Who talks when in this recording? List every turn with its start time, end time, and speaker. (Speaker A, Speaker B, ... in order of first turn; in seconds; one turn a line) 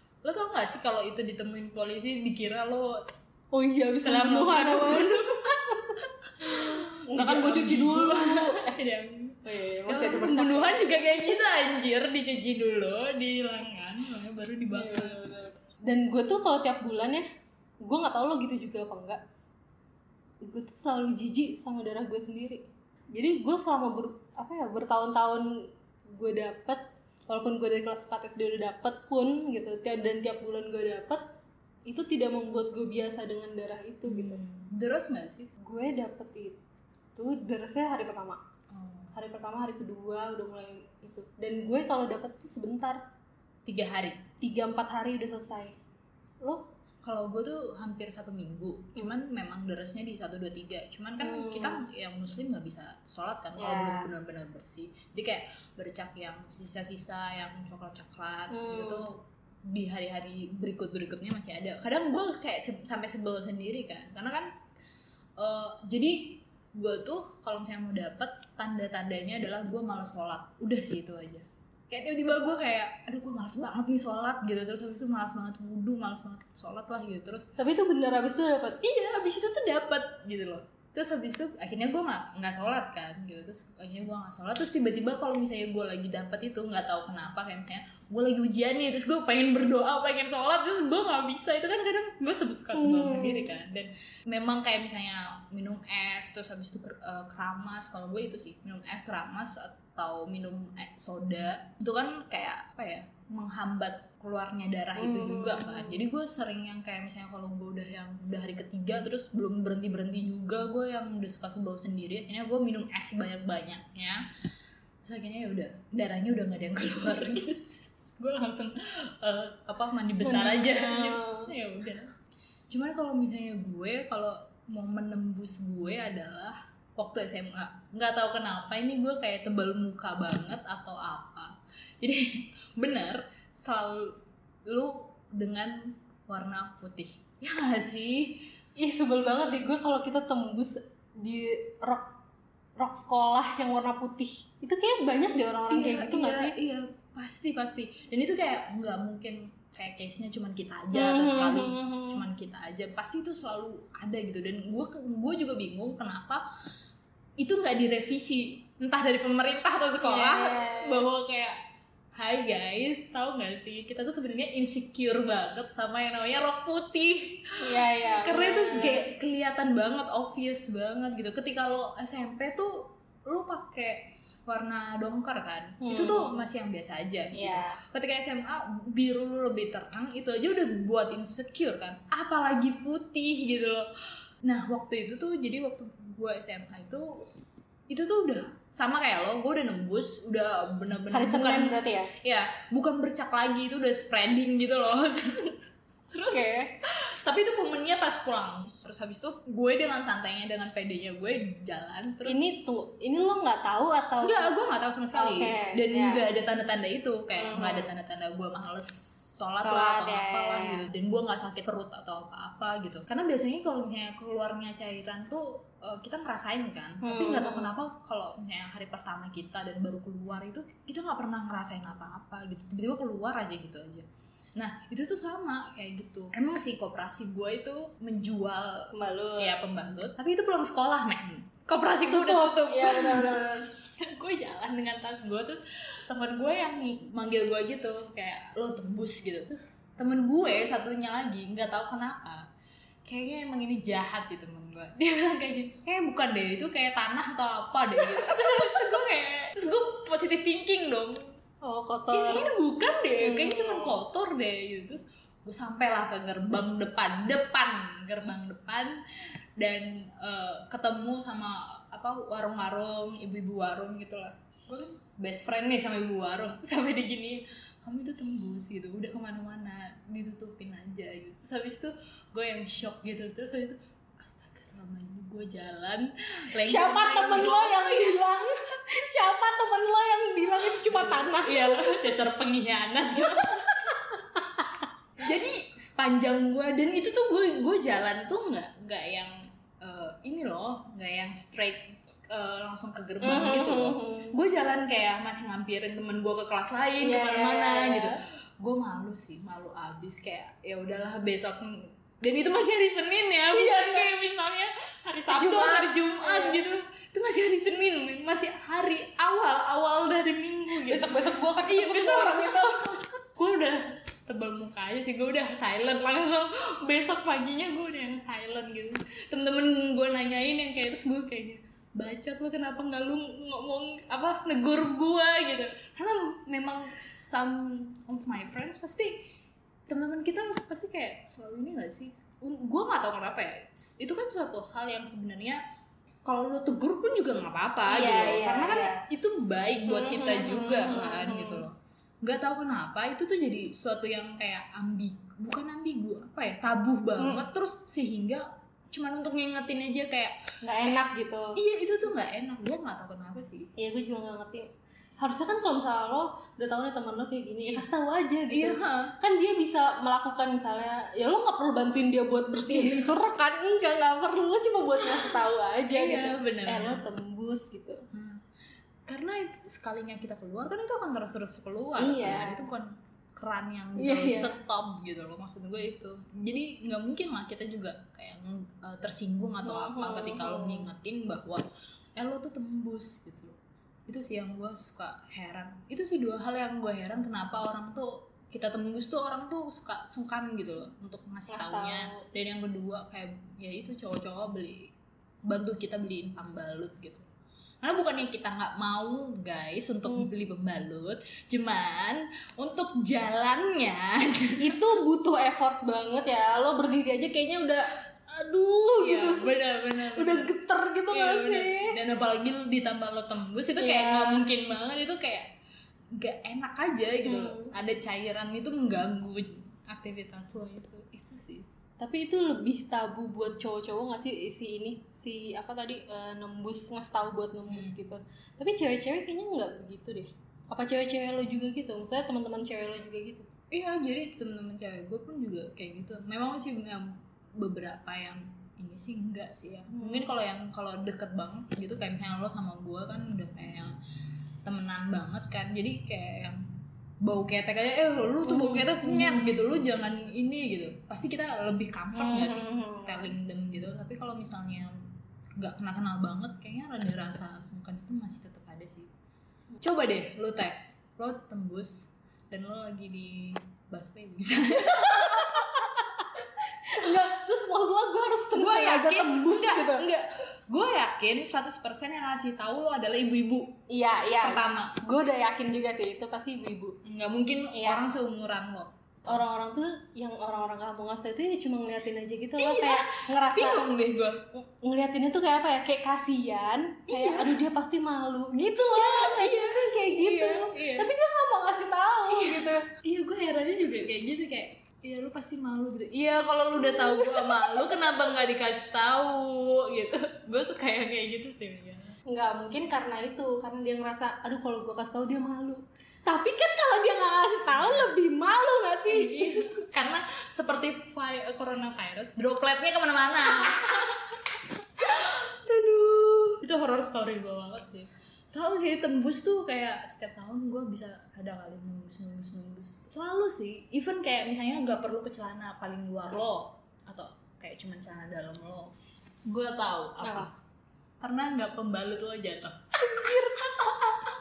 Speaker A: 0.2-3.0
Speaker B: 3.5-8.7
Speaker A: 4.0-5.3
Speaker A: 6.4-15.3
Speaker B: 9.5-11.3
Speaker B: 14.7-17.3
Speaker B: 17.8-19.2
Speaker B: 20.4-31.2
Speaker B: 31.9-34.4
Speaker A: 34.1-35.5
Speaker B: 35.6-36.6
Speaker B: 37.2-38.4
Speaker A: 38.7-39.1
Speaker B: 39.1-43.1
Speaker A: 43.7-44.2
Speaker B: 44.4-45.8
Speaker A: 47.0-64.5
Speaker B: 51.2-51.8
Speaker B: 53.6-54.1
Speaker B: 58.5-59.0
Speaker A: 65.4-77.5
Speaker B: 77.6-78.8
Speaker A: 78.8-114.2
Speaker B: 92.8-93.5
Speaker B: 105.0-106.0
Speaker A: 115.0-122.1
Speaker B: 120.2-121.5
Speaker A: 122.7-138.4
Speaker B: 138.8-142.1
Speaker B: 142.8-146.6
Speaker A: 145.7-156.5
Speaker B: 150.9-152.2
Speaker A: 157.4-161.6
Speaker B: 160.0-161.1
Speaker A: 162.1-183.9
Speaker B: 167.6-169.1
Speaker B: 175.8-176.4
Speaker B: 177.3-177.8
Speaker A: 184.4-187.3
Speaker A: 187.9-202.4
Speaker B: 191.1-192.1
Speaker B: 196.2-196.7
Speaker B: 202.2-204.5
Speaker A: 204.2-233.5
Speaker B: 205.1-206.2
Speaker B: 207.4-207.9
Speaker B: 209.6-210.9
Speaker B: 217.0-217.7
Speaker B: 228.9-229.6
Speaker B: 232.1-233.7
Speaker A: 234.0-242.4
Speaker A: 243.1-251.3
Speaker B: 248.2-248.9
Speaker B: 251.6-252.5
Speaker A: 252.1-259.0
Speaker B: 253.2-254.0
Speaker A: 259.6-278.4
Speaker B: 276.6-281.9
Speaker A: 280.9-284.0
Speaker B: 283.4-284.7
Speaker A: 285.2-312.6
Speaker B: 293.2-294.4
Speaker B: 297.0-298.2
Speaker B: 303.5-304.1
Speaker B: 305.3-306.6
Speaker B: 310.9-313.2
Speaker A: 313.4-329.3
Speaker A: 329.9-335.6
Speaker A: 336.2-353.7
Speaker B: 337.9-339.1
Speaker B: 339.9-341.6
Speaker B: 347.2-347.4
Speaker B: 350.6-351.6
Speaker B: 353.8-368.1
Speaker A: 358.5-359.1
Speaker A: 362.6-363.1
Speaker A: 365.1-365.4
Speaker A: 365.9-367.0
Speaker A: 368.1-368.4
Speaker A: 369.1-381.6
Speaker B: 372.0-372.7
Speaker B: 374.0-374.6
Speaker B: 379.6-380.9
Speaker A: 382.2-394.9
Speaker B: 391.5-392.2
Speaker A: 395.5-397.3
Speaker A: 397.8-404.8
Speaker B: 404.6-412.0
Speaker A: 409.0-410.5
Speaker A: 411.1-415.5
Speaker B: 413.8-414.4
Speaker A: 416.1-421.7
Speaker B: 417.2-417.7
Speaker B: 422.0-433.5
Speaker A: 427.7-428.0
Speaker A: 433.7-443.9
Speaker B: 440.0-440.2
Speaker A: 444.6-446.6
Speaker A: 447.2-455.0
Speaker B: 448.5-449.6
Speaker B: 452.1-453.3
Speaker A: 455.6-459.1
Speaker A: 459.8-466.0
Speaker B: 464.9-465.7
Speaker B: 466.3-470.1
Speaker A: 468.5-473.8
Speaker B: 473.9-477.0
Speaker A: 474.4-475.0
Speaker A: 477.0-479.4
Speaker B: 477.7-478.1
Speaker B: 479.3-483.9
Speaker A: 482.6-484.5
Speaker B: 484.6-492.9
Speaker A: 487.1-487.6
Speaker A: 488.9-491.1
Speaker A: 492.3-502.1
Speaker B: 496.8-497.8
Speaker B: 502.3-509.7
Speaker A: 507.8-508.1
Speaker A: 509.1-515.5
Speaker B: 515.1-516.6
Speaker A: 516.6-528.9
Speaker A: 529.5-530.5
Speaker B: 530.2-530.5
Speaker A: 531.2-534.1
Speaker B: 533.0-534.0